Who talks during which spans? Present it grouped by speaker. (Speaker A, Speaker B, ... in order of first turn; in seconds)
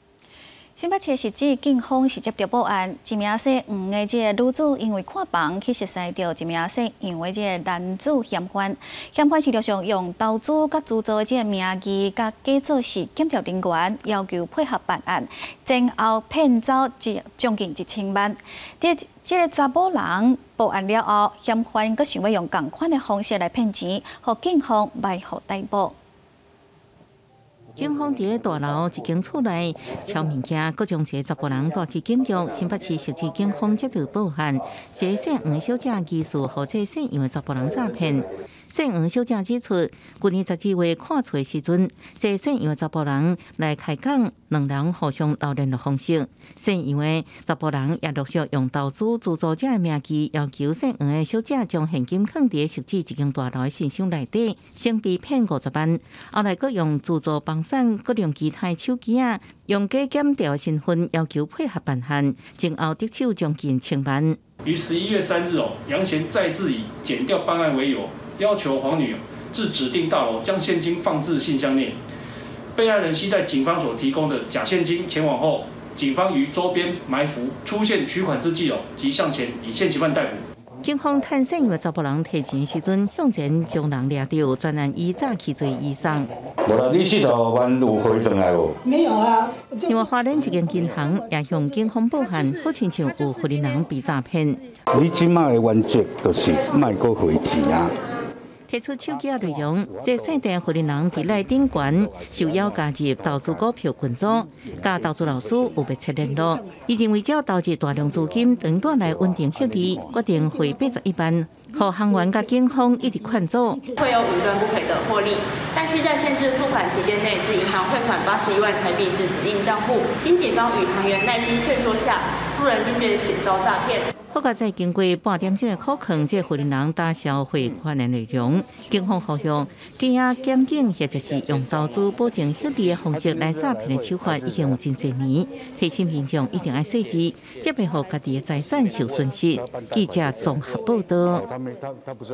Speaker A: 0.8-25.9
Speaker B: 27.8-64.4, 80.8-86.3, 89.9-94.7, 98.7-113.9, 124.3-141.5
Speaker C: 64.6-72.0, 72.8-80.4
Speaker D: 86.7-88.7, 94.9-97.9
Speaker E: 114.0-124.0